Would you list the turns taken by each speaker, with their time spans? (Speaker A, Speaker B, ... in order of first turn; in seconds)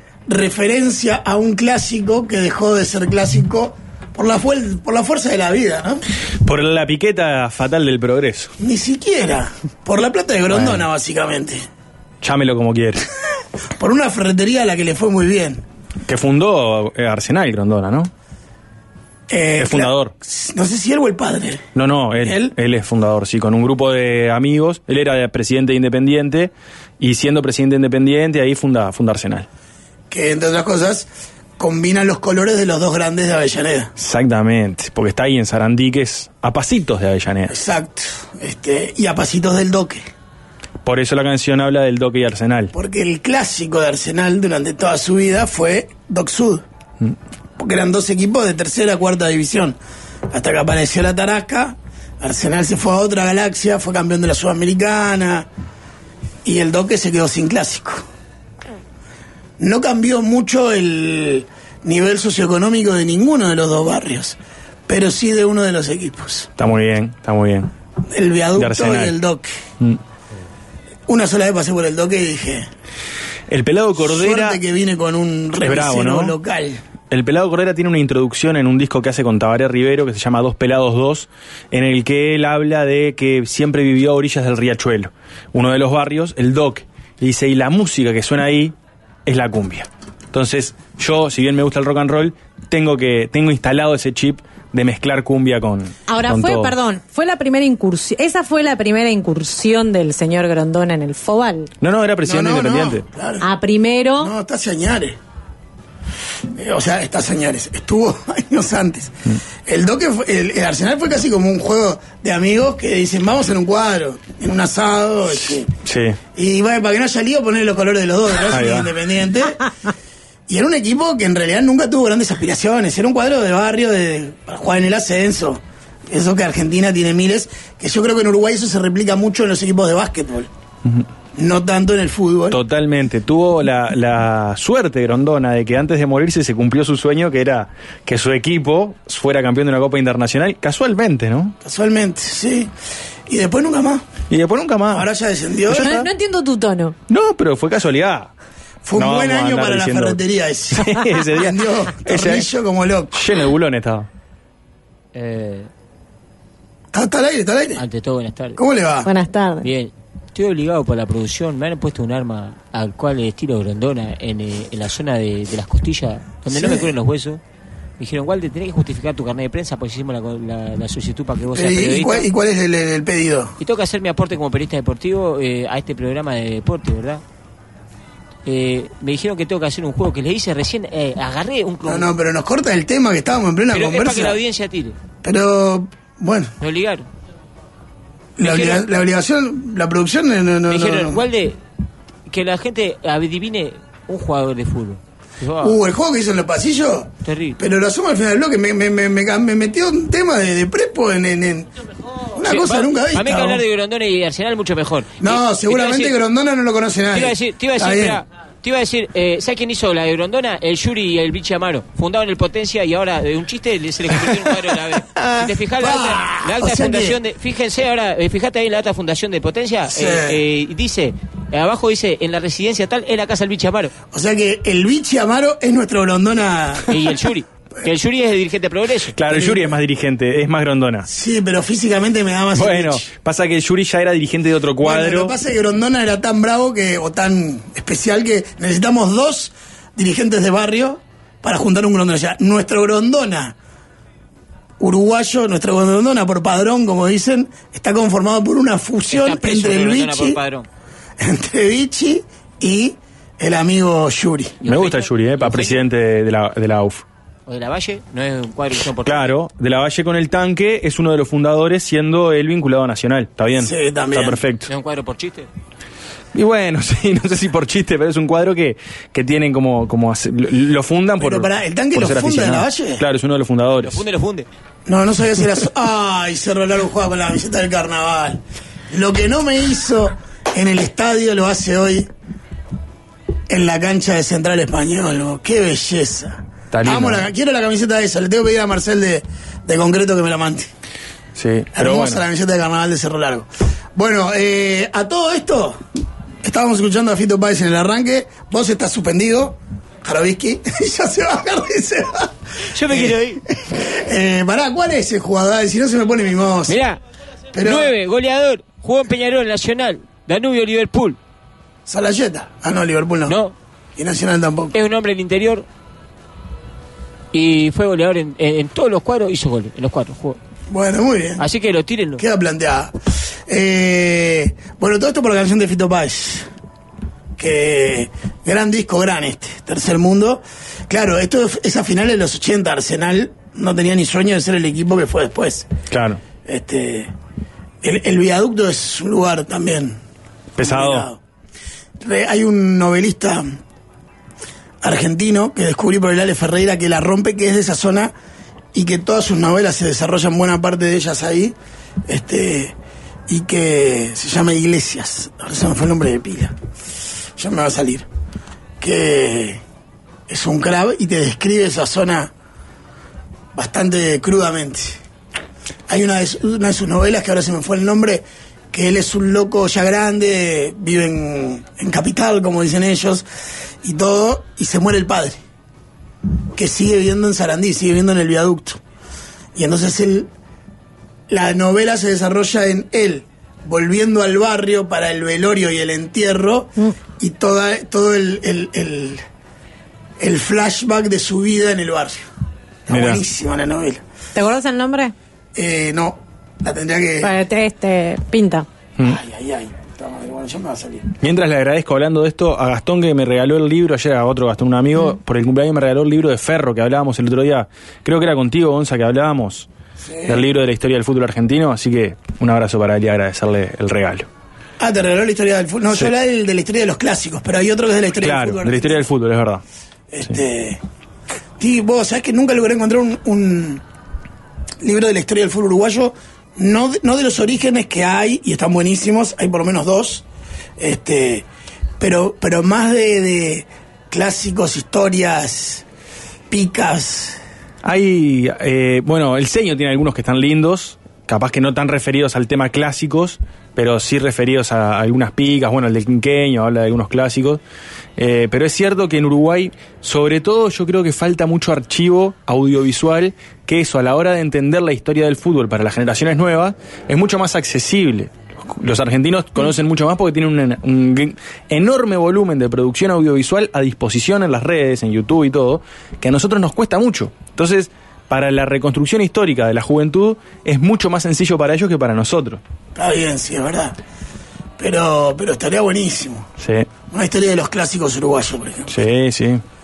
Speaker A: 0.3-6.0, 8.6-11.6, 13.8-15.6, 19.3-21.7, 22.2-22.5, 30.1-31.1, 31.6-33.9, 37.5-40.1, 42.7-46.6, 47.6-49.8, 50.3-55.5, 56.4-58.1, 59.6-66.5, 68.1-69.5, 71.1-72.7, 74.0-76.8, 102.2-103.5, 104.2-105.2, 106.5-115.7, 116.3-119.7, 120.5-130.5, 131.3-132.6, 141.6-142.7, 143.3-144.1, 144.9-146.1, 148.8-153.2, 156.9-157.8, 158.6-159.1, 166.5-166.9, 171.5-173.5, 181.8-184.4, 185.2-186.5, 188.4-191.2, 195.6-201.7, 202.3-203.6, 205.2-208.2, 215.2-217.2, 219.9-220.4, 224.1-227.0, 231.1-233.1, 234.8-243.6, 244.8-250.4, 251.2-254.6, 263.6-264.4, 271.2-273.1, 274.9-282.1, 283.5-290.7, 291.8-295.8, 296.4-306.8, 307.5-307.9, 311.9-313.4, 314.0-314.8, 320.7-321.4, 322.2-322.9, 323.5-326.5, 327.4-335.7, 336.4-337.1, 337.8-340.0, 340.6-341.2, 342.0-343.4, 344.8-348.1, 348.7-351.6, 352.1-352.8, 353.3-356.6, 357.4-358.1, 358.8-359.6, 360.3-362.3, 363.6-365.0, 365.9-373.2, 373.8-375.4, 376.6-378.8, 379.6-380.3, 381.3-389.2, 390.2-392.3, 392.9-394.0, 395.6-397.3, 399.0-401.1, 410.0-410.5, 414.8-419.1, 420.1-420.8, 421.6-423.8, 424.8-430.2, 430.8-431.5, 432.0-435.9, 436.5-437.4, 472.9-474.0, 474.8-476.5, 477.1-478.9
Speaker B: 6.4-8.5, 10.5-10.8, 12.2-13.1, 16.1-18.1, 19.6-20.1, 21.8-29.5, 34.0-37.5, 40.8-42.7, 66.6-67.7, 68.6-69.1, 73.5-74.6, 75.6-76.3, 77.1-88.8, 89.3-96.8, 101.8-103.0, 115.8-116.2, 118.5-118.9, 132.5-141.6, 144.3-145.1, 145.7-146.1, 147.1-148.3, 148.9-150.2, 150.7-152.5, 153.1-154.1, 229.2-231.1, 232.6-235.3, 254.7-257.1, 259.1-264.7, 266.3-274.0, 286.7-287.3, 291.4-292.2, 335.9-336.2, 340.6-341.1, 392.9-393.2, 401.2-409.7, 410.3-414.3, 418.2-419.6, 437.8-447.6, 448.2-472.6, 476.6-476.9, 478.9-479.6
Speaker C: 96.1-101.7, 103.4-104.3, 145.7-147.0, 159.1-159.7, 394.4-395.1, 397.2-398.7
Speaker D: 155.1-155.7, 157.8-158.6, 159.6-167.4, 168.0-172.3, 173.6-177.2, 178.4-182.1, 183.7-185.0, 186.6-187.1, 188.4-188.9, 190.7-191.6, 192.3-195.8, 197.2-197.6, 202.4-206.2, 207.1-223.9, 226.9-229.7, 249.1-250.7, 254.6-255.8, 257.5-259.4, 264.7-265.5, 273.8-274.5, 302.7-303.4, 306.7-307.0, 307.6-311.2, 313.3-313.6, 314.7-315.7, 317.3-320.4, 321.4-322.2